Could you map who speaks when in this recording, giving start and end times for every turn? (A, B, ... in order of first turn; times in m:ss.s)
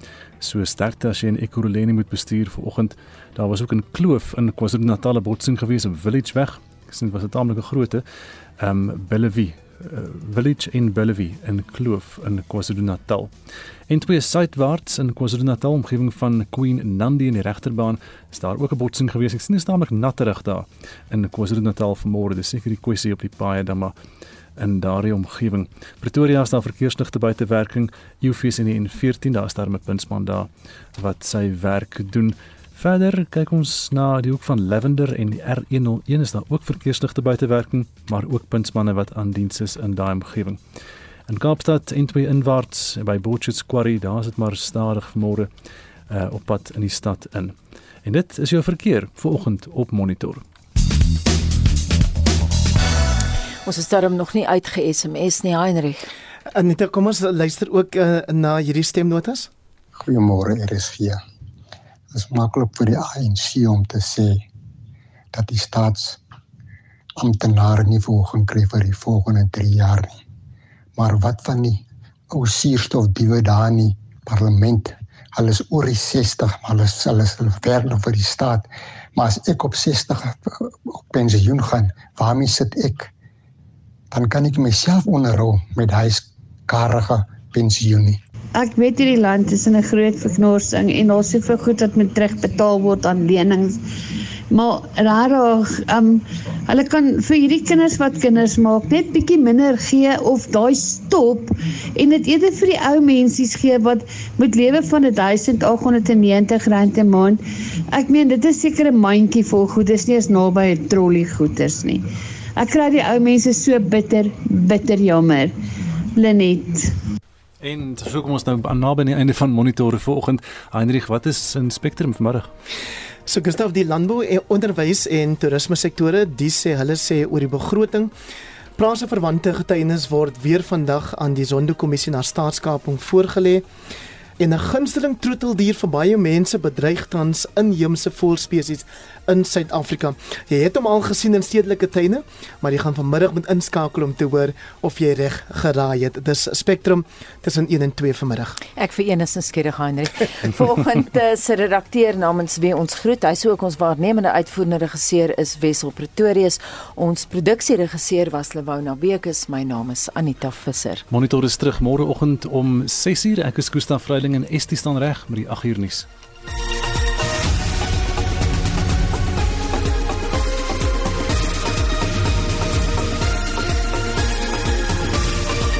0:00.4-0:08.0 A
0:08.6-0:13.3 A
0:13.9-0:23.9 A
0:24.6-0:40.6 A
0:41.3-0:45.5 A
0:46.1-0:50.4 A
0:53.6-0:56.1 B
0:56.5-0:59.5 C
1:00.0-1:01.2 D
1:02.1-1:04.4 D
1:05.3-1:06.2 D
1:07.2-1:10.2 D
1:11.0-1:23.1 D
1:24.1-1:28.2 D
1:28.6-1:33.8 E
1:34.5-1:47.4 E
1:47.9-1:52.0 E
1:52.6-1:55.5 E
1:56.2-1:56.9 E
1:57.6-2:02.5 A
2:03.3-2:08.1 C
2:08.8-2:13.6 C
2:14.4-2:28.6 C
2:28.8-2:41.0 B
2:41.1-2:46.1 A